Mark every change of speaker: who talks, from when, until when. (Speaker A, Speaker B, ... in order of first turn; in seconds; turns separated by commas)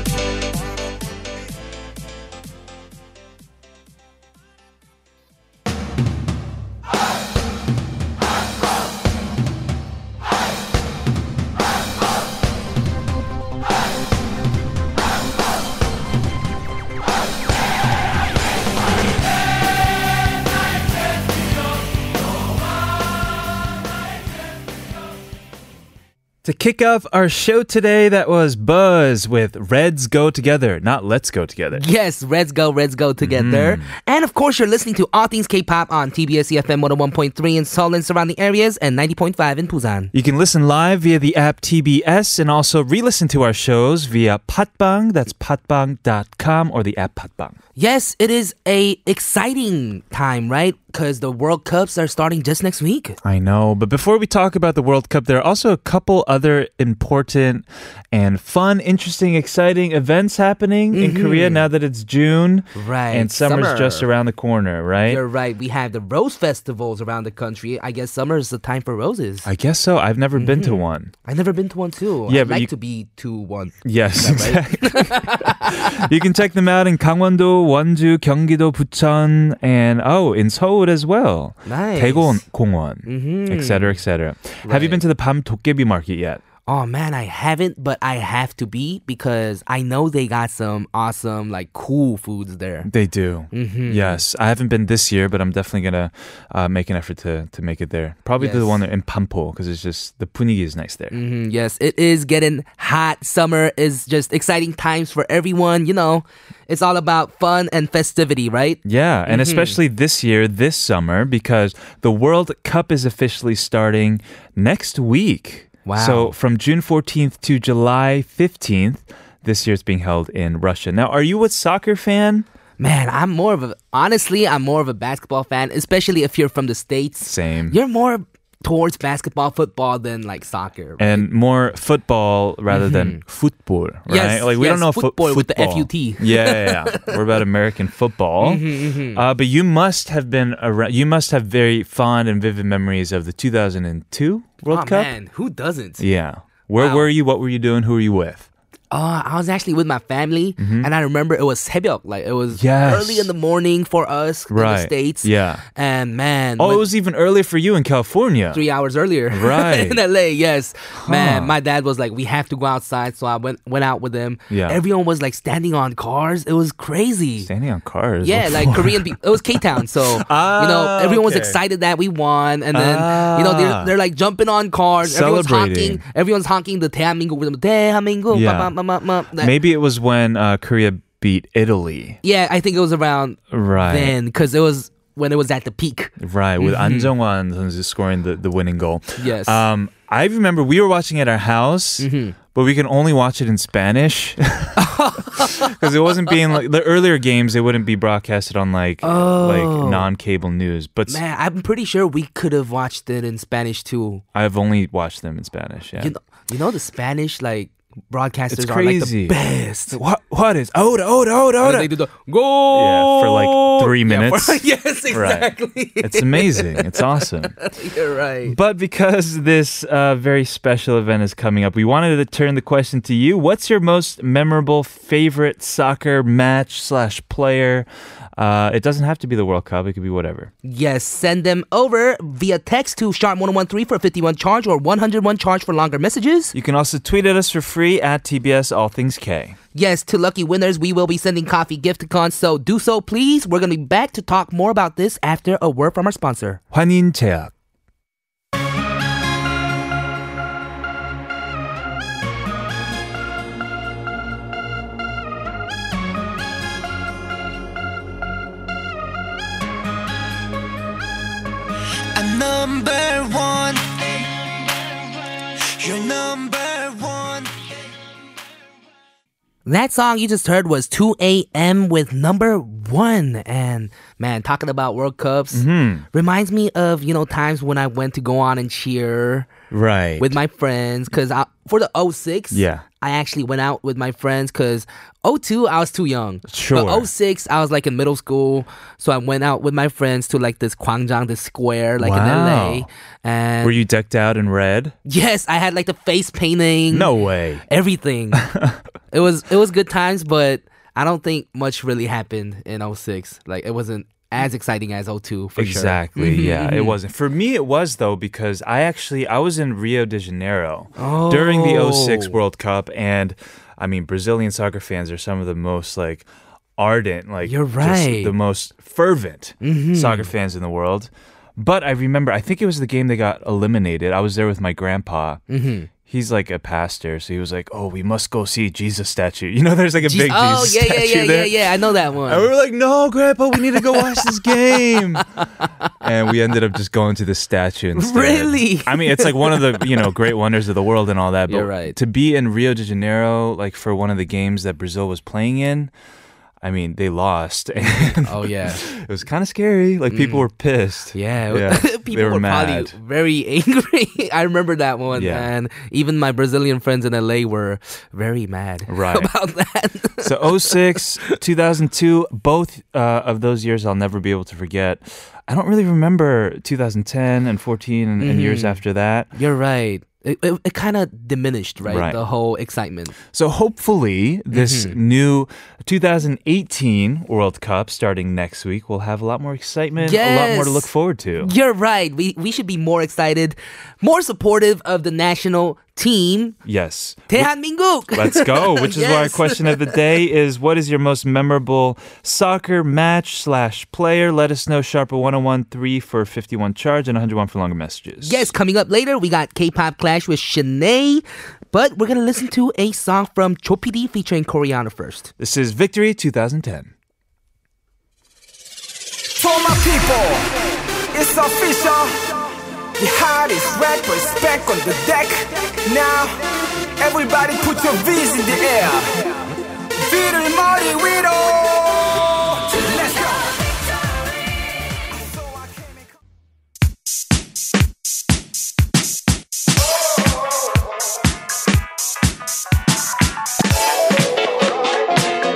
Speaker A: 26.4-31.8, Speaker B: 31.7-40.1, Speaker A: 33.2-33.9, Speaker A: 40.1-47.5, Speaker B: 47.8-53.2, Speaker A: 53.2-65.2, Speaker B: 60.9-61.7, Speaker B: 62.7-64.1, Speaker B: 65.0-69.5, Speaker A: 69.4-71.1, Speaker B: 70.3-76.0, Speaker A: 72.3-72.7, Speaker A: 73.8-86.4, Speaker B: 81.7-82.4, Speaker B: 83.0-84.0, Speaker B: 84.6-85.0, Speaker B: 86.6-92.9, Speaker A: 92.8-101.2, Speaker B: 93.5-94.2, Speaker B: 98.4-98.8, Speaker B: 101.1-109.8, Speaker A: 108.8-122.5, Speaker B: 115.8-116.3, Speaker B: 122.8-131.3, Speaker A: 127.2-127.8, Speaker A: 131.0-145.1, Speaker B: 132.7-133.2, Speaker B: 134.1-137.2, Speaker B: 138.4-139.2, Speaker B: 144.7-146.0, Speaker A: 146.0-148.5, Speaker B: 146.8-147.1, Speaker B: 148.9-156.8, Speaker A: 150.6-150.9, Speaker A: 152.5-153.3, Speaker A: 154.5-155.6, Speaker A: 156.6-158.6, Speaker B: 158.5-167.5, Speaker A: 159.3-160.0, Speaker A: 160.9-161.5, Speaker A: 164.5-164.8, Speaker A: 167.4-169.2, Speaker B: 168.2-179.6, Speaker A: 169.8-171.6, Speaker A: 172.7-173.9, Speaker A: 175.0-176.0, Speaker A: 178.3-178.7, Speaker A: 179.4-182.2, Speaker B: 182.2-187.1, Speaker A: 183.5-184.2, Speaker A: 186.2-194.8, Speaker B: 189.2-189.6, Speaker B: 192.0-192.3, Speaker B: 194.8-195.8, Speaker A: 195.4-201.2, Speaker B: 199.0-200.1, Speaker B: 201.1-204.2, Speaker A: 204.3-206.1, Speaker B: 206.0-210.0, Speaker A: 208.5-211.9, Speaker B: 211.6-218.6, Speaker A: 212.7-217.6, Speaker A: 218.4-230.5, Speaker B: 230.6-236.5, Speaker A: 236.5-239.6, Speaker B: 239.7-246.6, Speaker A: 246.7-247.5, Speaker C: 262.2-263.9, Speaker C: 265.8-267.5, Speaker D: 267.0-267.3, Speaker B: 269.6-279.5, Speaker A: 275.5-276.1, Speaker A: 279.7-280.3, Speaker B: 280.2-293.8, Speaker A: 282.5-282.8, Speaker A: 286.5-287.1, Speaker A: 292.0-292.9, Speaker A: 293.6-294.9, Speaker B: 295.1-297.1, Speaker A: 296.9-297.6, Speaker B: 297.7-298.5, Speaker A: 298.3-298.8, Speaker B: 299.1-306.9, Speaker A: 305.6-325.4, Speaker B: 311.0-312.4, Speaker B: 317.4-318.3, Speaker B: 319.6-320.3, Speaker B: 325.5-325.9, Speaker A: 326.0-331.6, Speaker B: 330.0-332.5, Speaker A: 332.2-335.2, Speaker B: 333.8-335.6, Speaker A: 336.0-345.9, Speaker B: 337.9-340.1, Speaker B: 341.5-342.0, Speaker A: 346.6-352.9, Speaker B: 347.8-348.8, Speaker B: 350.1-350.4, Speaker B: 351.1-361.3, Speaker A: 355.1-355.5, Speaker A: 358.9-359.3, Speaker A: 360.2-369.3, Speaker B: 368.2-368.8, Speaker B: 369.3-373.1, Speaker A: 371.8-372.2, Speaker A: 373.3-381.5, Speaker B: 374.5-375.0, Speaker B: 380.0-386.6, Speaker A: 386.6-387.5, Speaker B: 387.3-389.9, Speaker A: 388.1-398.5, Speaker B: 398.2-405.3, Speaker A: 405.4-406.9, Speaker D: 409.4-410.5, Speaker D: 411.1-416.4, Speaker D: 417.0-419.4, Speaker D: 420.0-423.6, Speaker D: 425.5-425.8